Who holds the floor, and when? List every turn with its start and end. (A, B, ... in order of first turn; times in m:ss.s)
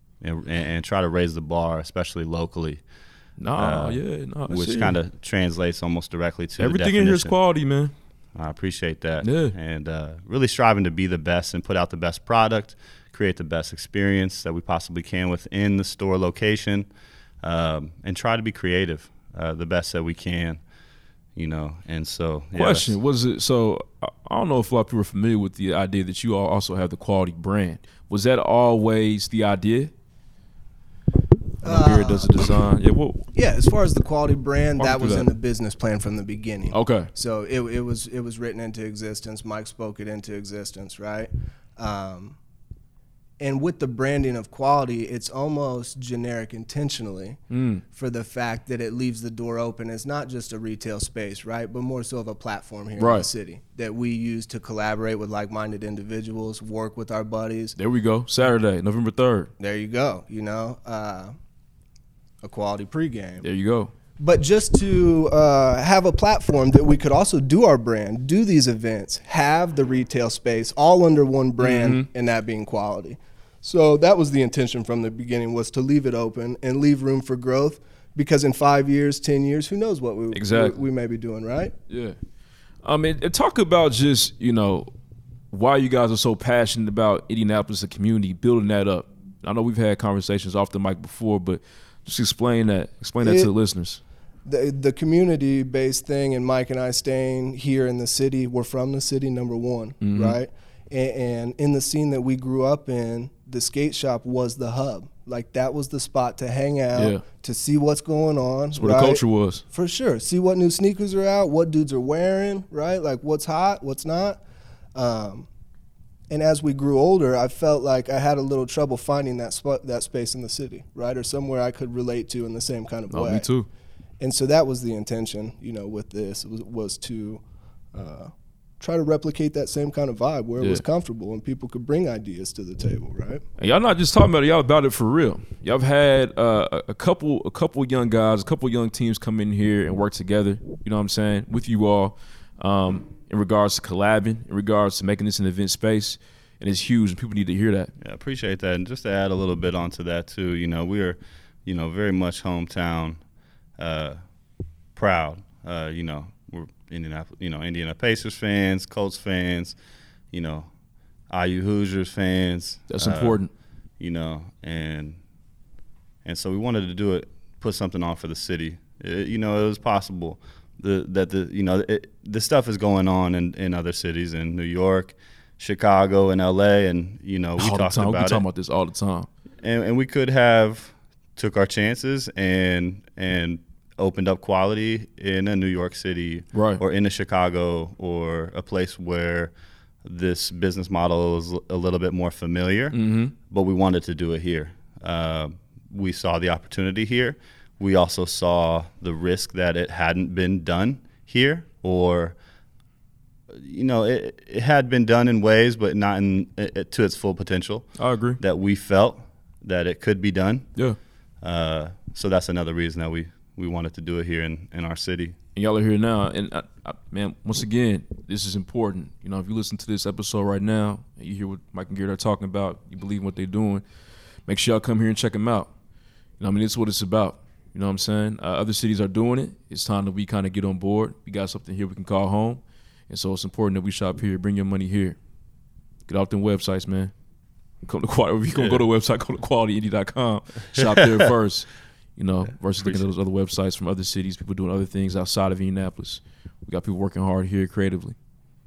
0:00.2-0:02.8 A
0:03.4-0:05.0 B
0:03.6-0:07.4 A
0:06.6-0:07.9 B
0:08.4-0:16.9 A
0:09.2-0:09.5 B
0:17.4-0:20.6 A
0:21.4-0:23.0 A
0:22.5-0:29.9 B
0:31.6-0:32.6 C
0:31.6-0:33.2 B
0:33.3-0:42.4 C
0:34.8-0:35.3 B
0:36.7-0:37.1 B
0:43.4-0:47.4 C
0:47.5-0:47.8 B
0:47.9-0:57.7 C
0:53.0-0:53.3 B
0:57.8-0:59.5 B
0:59.6-1:01.3 C
1:02.4-1:03.4 C
1:03.4-1:03.9 B
1:04.2-1:21.7 C
1:11.6-1:12.1 B
1:20.3-1:20.8 B
1:21.9-1:22.2 B
1:22.8-1:24.9 B
1:25.5-1:34.0 B
1:33.2-1:33.5 C
1:34.4-1:54.4 C
1:40.0-1:40.4 B
1:46.9-1:47.2 B
1:48.7-1:49.6 B
1:54.9-1:55.5 C
1:56.3-2:03.5 C
2:03.1-2:03.7 B
2:04.2-2:07.4 C
2:07.9-2:13.4 C
2:10.6-2:10.8 B
2:13.6-2:27.9 B
2:28.0-2:33.2 A
2:33.8-2:34.2 A
2:35.0-2:39.8 A
2:40.3-2:40.7 A
2:41.3-2:43.4 A
2:42.9-2:43.5 B
2:44.0-2:45.2 A
2:46.2-2:58.4 A
2:57.6-2:59.3 B
2:59.6-3:09.5 A
3:06.5-3:06.8 B
3:10.0-3:13.0 A
3:12.9-3:13.3 B
3:13.5-3:22.4 A
3:23.5-3:27.9 A
3:28.0-3:28.4 B
3:28.4-3:30.7 A
3:31.4-3:35.4 A
3:35.5-3:43.8 B
3:44.5-3:45.7 B
3:46.4-3:55.2 B
3:56.1-3:57.1 B
3:57.8-4:08.2 B
3:58.6-3:58.8 A
4:00.8-4:01.2 A
4:02.8-4:03.0 A